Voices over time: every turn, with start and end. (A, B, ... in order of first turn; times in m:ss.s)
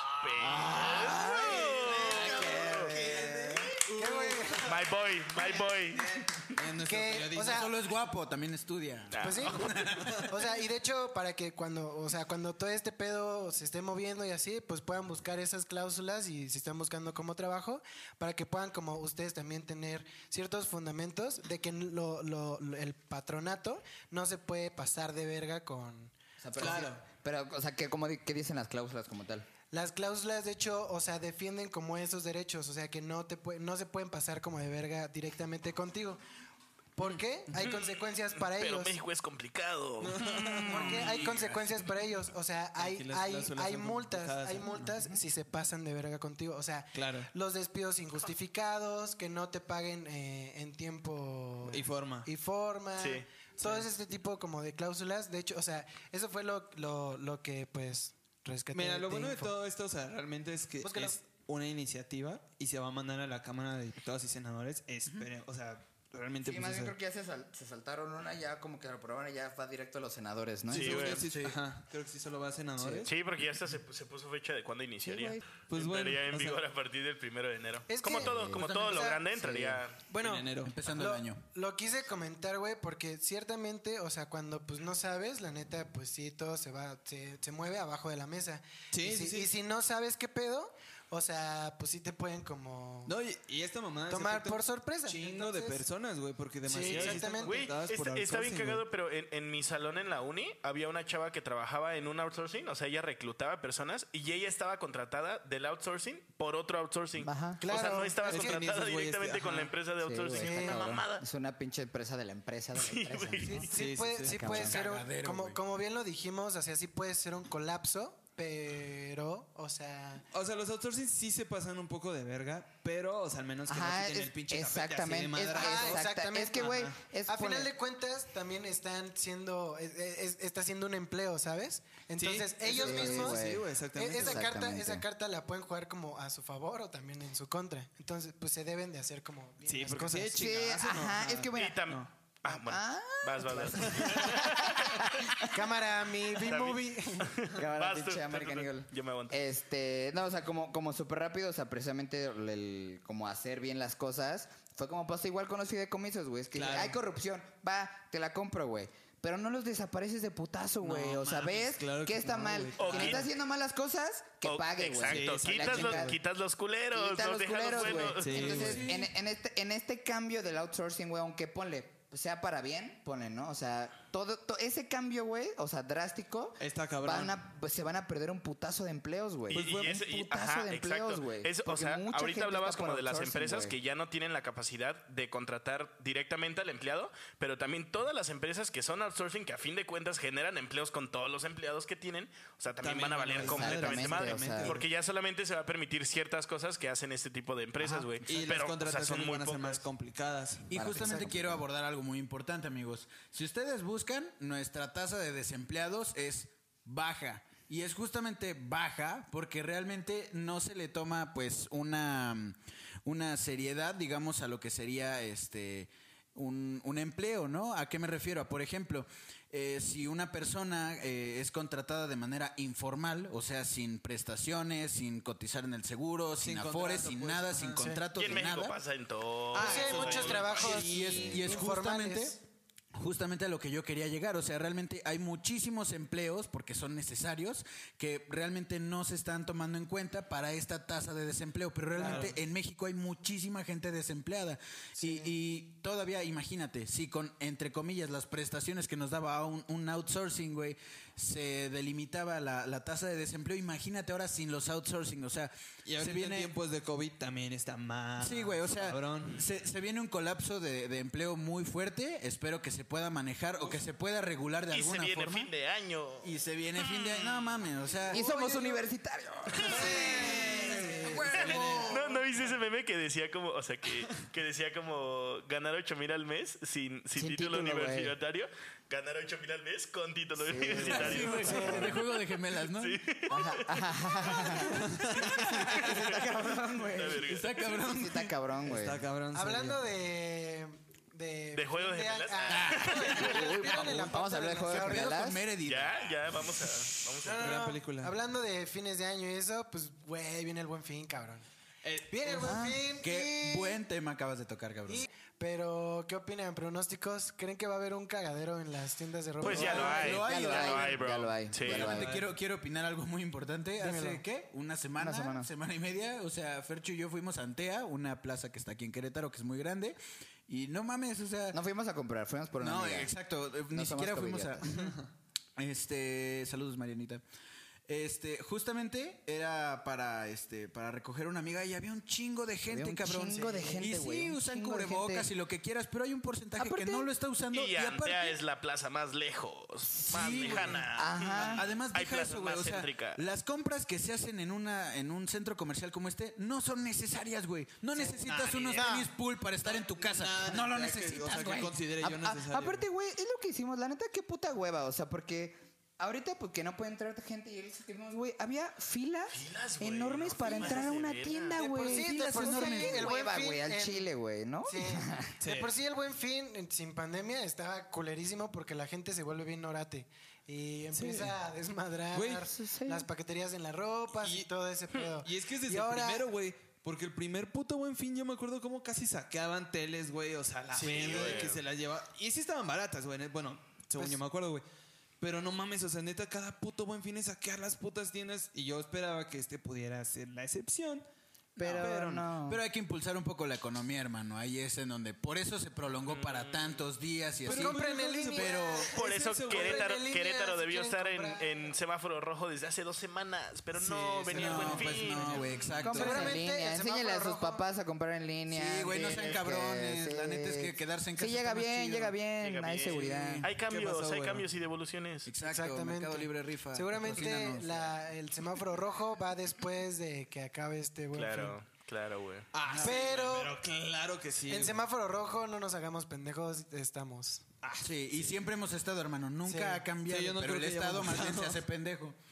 0:00.2-0:02.9 A
0:00.4-0:02.9 B
0:00.4-0:03.7 C
0:00.4-0:04.8 D
0:03.8-0:04.8 E
0:04.6-0:06.5 A
0:05.4-0:07.7 D
0:06.8-0:07.7 E
0:07.4-0:10.3 B
0:09.1-0:09.7 A
0:09.2-0:26.9 E
0:10.0-0:10.2 D
0:26.4-0:29.5 C
0:26.6-0:27.0 D
0:29.7-0:36.2 E
0:37.0-0:39.0 E
0:38.4-0:40.2 A
0:40.0-0:41.0 D
0:40.2-0:41.8 B
0:40.7-0:59.5 E
0:42.8-0:45.1 D
0:46.9-0:47.3 D
0:51.6-0:52.3 D
0:53.0-0:53.2 A
0:53.6-0:53.9 D
0:58.7-1:06.9 D
1:00.8-1:01.2 E
1:06.4-1:11.2 C
1:10.7-1:11.2 A
1:10.7-1:13.1 D
1:11.3-1:11.6 B
1:12.8-1:13.1 C
1:13.1-1:20.0 A
1:15.0-1:15.4 C
1:15.7-1:16.6 D
1:17.9-1:19.2 E
1:18.0-1:18.6 C
1:18.5-1:19.8 B
1:20.1-1:33.1 E
1:20.2-1:20.8 D
1:20.6-1:21.4 B
1:28.9-1:29.5 D
1:33.1-1:38.8 D
1:34.1-1:35.8 E
1:36.6-1:37.7 E
1:36.8-1:51.2 A
1:47.2-1:47.6 C
1:47.6-1:48.6 E
1:48.3-1:49.7 D
1:50.0-1:53.7 C
1:50.3-1:50.8 E
1:52.8-1:53.7 A
1:53.4-2:00.2 E
1:53.7-1:54.5 D
1:54.3-1:54.8 C
1:54.5-1:55.6 B
2:00.3-2:06.0 D
2:03.7-2:07.7 C
2:05.5-2:20.4 E
2:06.6-2:06.9 D
2:12.2-2:14.5 D
2:12.7-2:15.0 C
2:19.6-2:22.1 D
2:20.3-2:25.5 C
2:21.6-2:25.3 A
2:23.6-2:24.4 D
2:25.5-2:27.3 E
2:26.4-2:29.4 A
2:27.5-2:46.2 C
2:36.5-2:37.0 D
2:40.8-2:43.3 D
2:42.8-2:43.3 A
2:44.4-2:48.8 A
2:45.0-2:46.2 D
2:46.9-3:03.8 C
2:48.0-2:48.9 D
2:48.3-2:49.1 B
2:56.6-2:57.4 D
2:59.5-3:19.8 A
2:59.5-2:59.9 D
3:12.8-3:14.9 D
3:13.4-3:14.8 C
3:18.3-3:20.7 D
3:20.7-3:48.8 B
3:20.7-3:21.6 C
3:46.4-3:48.0 D
3:47.8-3:48.0 E
3:48.2-3:50.8 A
3:49.5-3:51.4 D
3:49.6-3:52.4 E
3:50.4-3:52.4 B
3:51.0-3:51.6 C
3:53.0-4:16.5 B
4:02.0-4:02.3 E
4:02.0-4:02.4 D
4:05.0-4:05.3 E
4:15.8-4:19.5 D
4:18.2-4:25.5 B
4:24.7-4:27.6 A
4:26.2-4:28.3 B
4:28.0-4:28.3 D
4:28.1-4:30.8 C
4:29.5-4:30.0 A
4:29.7-4:32.0 D
4:29.7-4:32.2 B
4:31.3-4:42.0 A
4:37.2-4:38.1 C
4:40.4-4:42.0 C
4:40.8-4:43.0 B
4:41.2-4:42.0 E
4:42.6-4:44.7 A
4:43.3-4:49.0 C
4:44.6-4:45.4 D
4:45.4-4:46.1 B
4:45.7-4:46.4 A
4:46.9-4:47.5 A
4:47.1-4:48.3 B
4:48.6-4:49.9 D
4:49.3-4:55.3 E
4:51.6-4:53.6 A
4:52.5-4:53.1 B
4:53.1-4:55.4 C
4:54.7-4:56.4 B
4:55.6-4:57.6 A
4:57.2-5:01.4 E
4:57.4-4:58.2 D
5:01.8-5:02.7 D
5:02.1-5:03.8 E
5:02.4-5:02.8 C
5:03.0-5:05.0 B
5:04.9-5:10.1 E
5:09.4-5:12.0 A
5:09.4-5:11.0 B
5:09.5-5:12.1 C
5:11.6-5:21.6 B
5:11.8-5:12.3 D
5:13.8-5:14.2 E
5:15.0-5:15.5 C
5:21.5-5:23.2 C
5:22.6-5:25.0 B
5:23.7-5:24.7 C
5:24.7-5:25.1 D
5:25.6-5:27.2 B
5:27.9-5:38.4 B
5:32.6-5:35.3 C
5:33.3-5:33.8 E
5:36.6-5:37.1 C
5:37.5-5:43.2 A
5:40.1-5:40.8 B
5:40.3-5:41.6 C
5:41.4-5:51.8 B
5:48.0-5:48.9 A
5:48.7-5:49.1 E
5:49.6-5:52.8 D
5:52.0-6:05.3 C
5:59.3-6:01.6 A
6:01.6-6:04.0 E
6:01.6-6:03.1 B
6:04.6-6:16.3 E
6:05.4-6:05.7 D
6:10.9-6:11.3 D
6:12.1-6:12.5 D
6:12.4-6:13.1 C
6:14.1-6:14.5 D
6:15.2-6:24.6 D
6:20.7-6:21.4 E
6:20.8-6:21.6 A
6:25.2-6:31.0 D
6:31.6-6:32.6 C
6:31.6-6:32.3 D
6:31.7-6:38.6 B
6:36.1-6:36.9 A
6:37.4-6:40.0 D
6:37.5-6:41.7 E
6:38.9-6:45.8 A
6:43.8-6:46.2 D
6:43.9-6:44.8 E
6:44.4-6:46.4 B
6:45.8-6:53.5 C
6:45.9-6:47.6 E
6:48.5-6:52.2 B
6:52.4-6:55.3 A
6:52.8-6:53.5 B
6:53.6-6:54.5 D
6:55.2-6:57.9 B
6:55.4-7:01.6 E
7:01.2-7:02.5 A
7:02.5-7:04.8 D
7:02.7-7:03.0 B
7:02.8-7:03.6 E
7:04.5-7:07.4 E
7:07.6-7:08.4 D
7:07.8-7:12.2 B
7:09.4-7:09.8 E
7:10.1-7:11.6 D